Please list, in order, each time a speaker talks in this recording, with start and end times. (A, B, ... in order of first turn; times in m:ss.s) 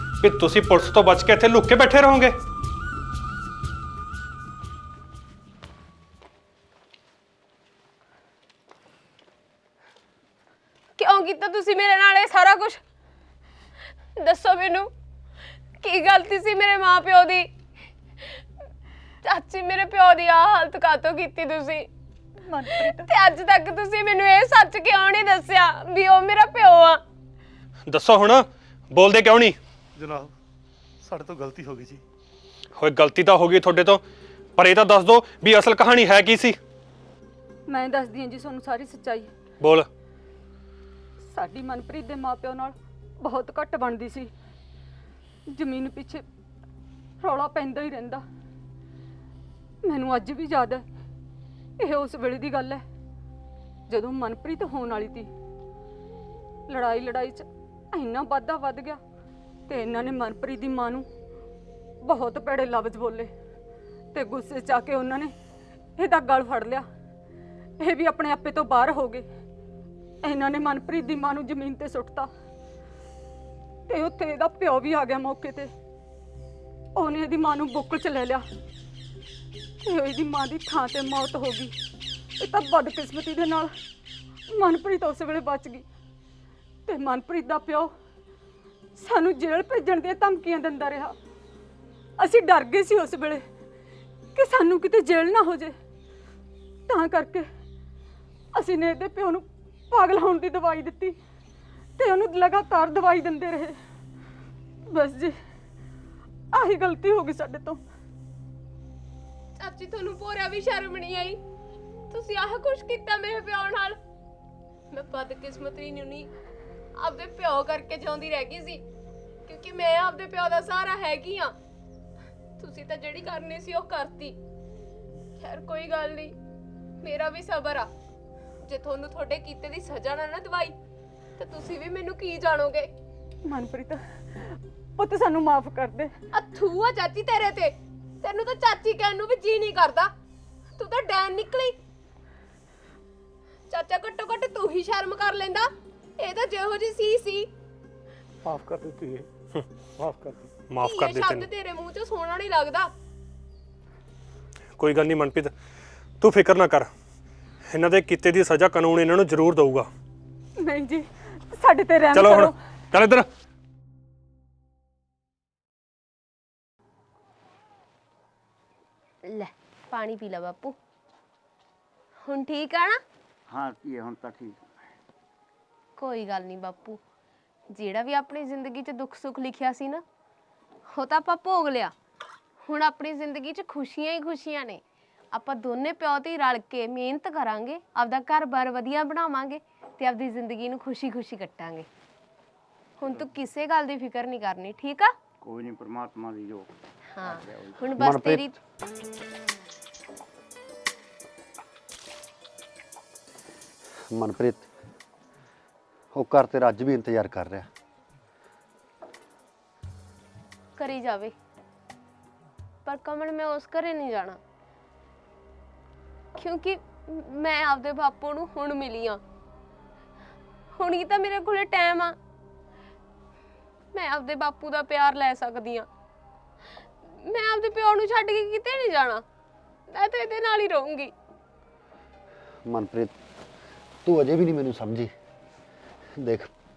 0:00.2-0:02.4 A
0:11.0-0:12.8 B
0:14.2-0:14.9 B
0:15.8-0:17.5 B
0:19.2-0:21.9 B
0:22.4-0:23.1 C
0:22.8-0:27.0 B
0:27.9-0:29.6 A
0:30.0-0:30.3 D
0:31.0-0:32.0 D
0:32.8-0:34.0 A
0:34.6-0:36.6 A
0:37.7-0:39.3 C
0:39.6-0:39.9 A
0:41.3-0:44.3 C
0:45.5-0:46.2 C
0:47.2-0:48.2 C
0:49.8-0:50.8 C
0:51.8-0:52.8 C
0:53.9-0:55.3 C
0:56.7-0:59.0 C
0:59.7-1:01.1 C
1:02.0-1:03.3 C
1:04.1-1:05.3 C
1:06.0-1:06.9 C
1:07.8-1:09.3 C
1:10.2-1:12.3 C
1:13.9-1:15.7 C
1:17.0-1:18.4 C
1:19.8-1:21.7 C
1:22.4-1:23.7 C
1:24.5-1:25.8 C
1:26.9-1:27.9 C
1:29.0-1:31.2 C
1:32.2-1:33.4 C
1:34.4-1:35.8 C
1:36.9-1:37.5 C
1:38.5-1:41.2 C
1:42.0-1:43.8 C
1:44.9-1:45.4 C
1:46.5-1:47.8 C
1:49.6-1:51.4 B
1:52.1-1:54.0 B
1:54.9-1:56.3 B
1:57.0-1:58.8 B
1:59.5-2:01.6 B
2:02.6-2:04.4 B
2:05.4-2:06.4 B
2:07.0-2:07.9 B
2:08.6-2:10.8 B
2:11.4-2:12.9 B
2:13.4-2:16.1 C
2:16.3-2:20.1 B
2:20.8-2:21.8 B
2:23.7-2:27.5 B
2:28.4-2:29.3 D
2:30.0-2:30.5 D
2:30.7-2:31.5 A
2:30.8-2:32.9 B
2:34.8-2:35.5 A
2:36.2-2:36.9 A
2:37.7-2:39.9 A
2:40.6-2:42.6 C
2:42.1-2:43.3 A
2:49.2-2:50.8 B
2:52.3-2:53.0 B
2:53.5-2:54.7 E
2:56.0-2:57.0 B
2:57.7-3:00.0 B
3:00.9-3:01.9 B
3:02.7-3:04.8 B
3:05.3-3:11.9 B
3:13.0-3:15.2 B
3:15.4-3:16.7 E
3:17.2-3:18.6 B
3:17.2-3:17.9 E
3:18.0-3:18.5 F
3:24.1-3:24.7 F
3:26.1-3:27.7 F
3:30.8-3:31.3 B
3:32.8-3:34.4 B
3:36.4-3:39.2 B
3:40.8-3:42.2 B
3:43.9-3:45.9 B
3:47.2-3:49.2 B
3:49.9-3:51.1 B
3:52.7-3:53.2 F
3:54.0-3:55.1 F
3:56.2-3:56.5 F